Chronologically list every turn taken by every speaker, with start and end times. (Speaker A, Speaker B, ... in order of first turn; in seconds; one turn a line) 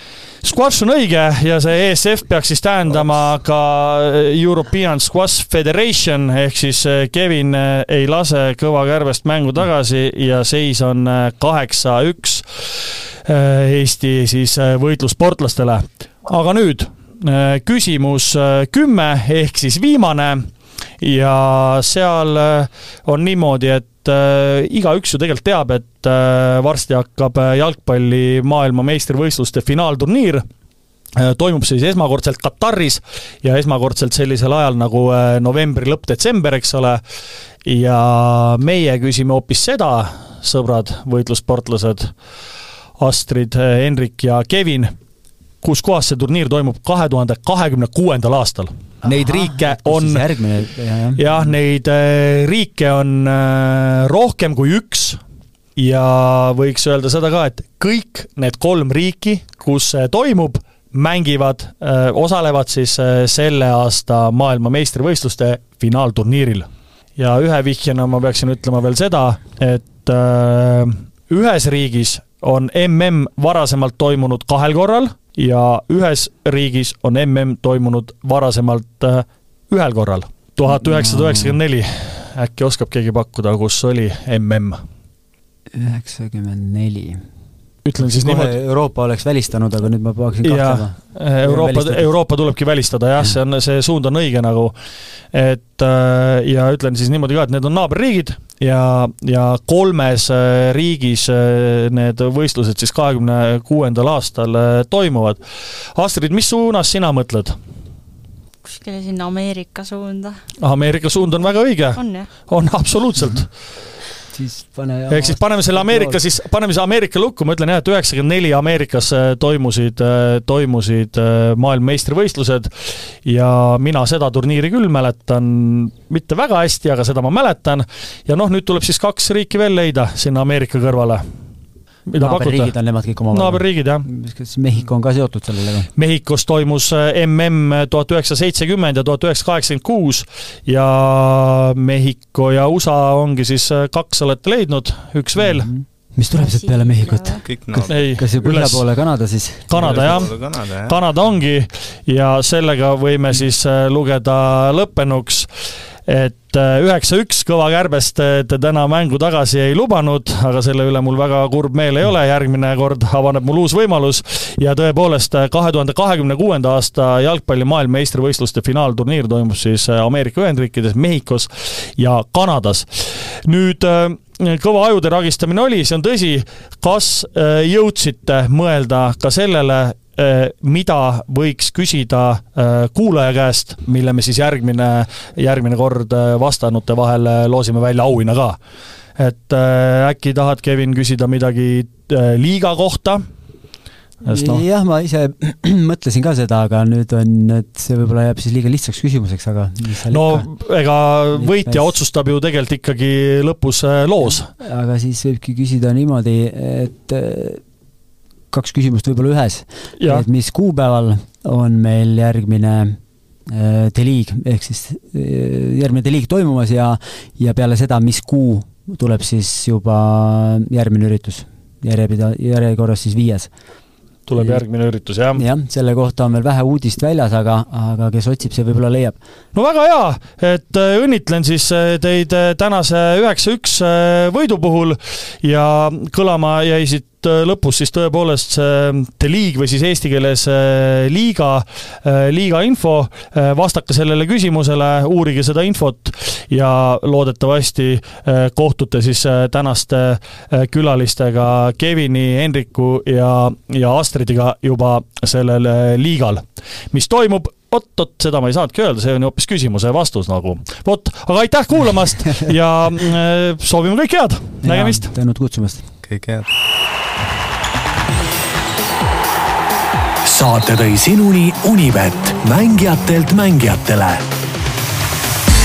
Speaker A: 0.4-12.4
Speaker A: 13.2-20.4
Speaker A: 21.0-30.4
Speaker A: 31.2-37.0
Speaker A: 37.6-42.1
Speaker A: 43.0-44.9
Speaker A: 45.6-50.2
Speaker B: 49.0-51.4
Speaker A: 51.2-55.2
Speaker A: 55.8-84.8
Speaker B: 80.7-81.6
Speaker B: 85.7-87.2
Speaker A: 87.8-88.5
Speaker B: 88.0-92.1
Speaker A: 90.4-94.7
Speaker A: 95.3-105.4
Speaker A: 105.9-107.5
Speaker C: 108.6-110.4
Speaker A: 110.6-113.5
Speaker C: 112.0-112.3
Speaker B: 114.3-116.2
Speaker A: 115.1-131.2
Speaker A: 132.1-132.8
Speaker B: 132.2-135.9
Speaker A: 133.3-134.1
Speaker A: 135.9-145.7
Speaker B: 145.4-150.3
Speaker C: 146.4-147.4
Speaker D: 147.4-148.0
Speaker A: 147.9-148.8
Speaker A: 149.7-155.5
Speaker D: 149.7-151.0
Speaker A: 156.1-188.6
Speaker A: 189.2-193.2
Speaker A: 194.2-194.6
Speaker B: 194.3-200.5
Speaker A: 200.1-204.5
Speaker B: 201.3-202.0
Speaker B: 204.2-207.6
Speaker B: 208.5-223.5
Speaker A: 210.0-210.2
Speaker A: 224.3-225.4
Speaker B: 225.3-229.2
Speaker A: 229.5-265.1
Speaker B: 264.6-265.9
Speaker D: 266.0-266.5
Speaker E: 270.2-274.2